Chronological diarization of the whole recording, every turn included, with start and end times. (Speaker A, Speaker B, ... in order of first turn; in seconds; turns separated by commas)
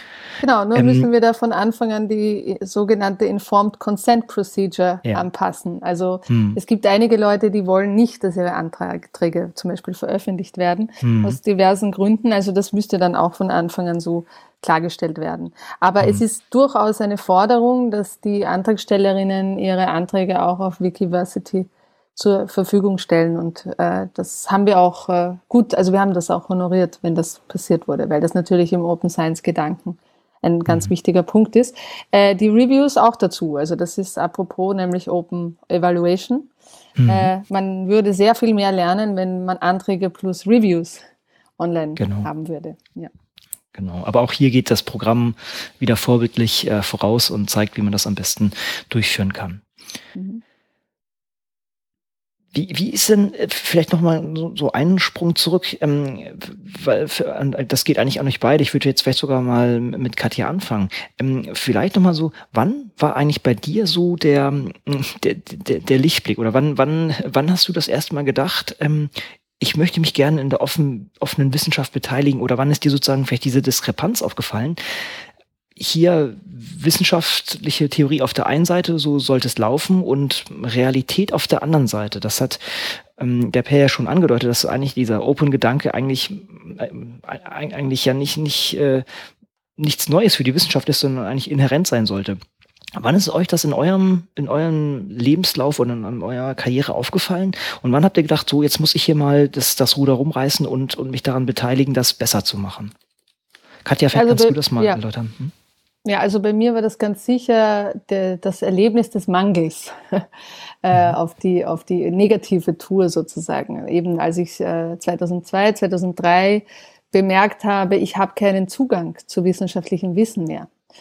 Speaker A: 0.4-36.5, Speaker B: 0.8-1.1, Speaker B: 6.3-6.6, Speaker B: 11.0-11.4, Speaker B: 37.0-37.3, Speaker A: 37.1-41.0, Speaker A: 41.6-43.1, Speaker B: 42.0-42.3, Speaker B: 43.8-49.6, Speaker A: 50.1-50.4, Speaker B: 52.5-74.8, Speaker B: 75.8-89.0, Speaker B: 89.8-92.4, Speaker B: 93.0-102.9, Speaker B: 103.8-105.5, Speaker A: 104.1-105.0, Speaker A: 106.0-110.3, Speaker A: 110.8-120.7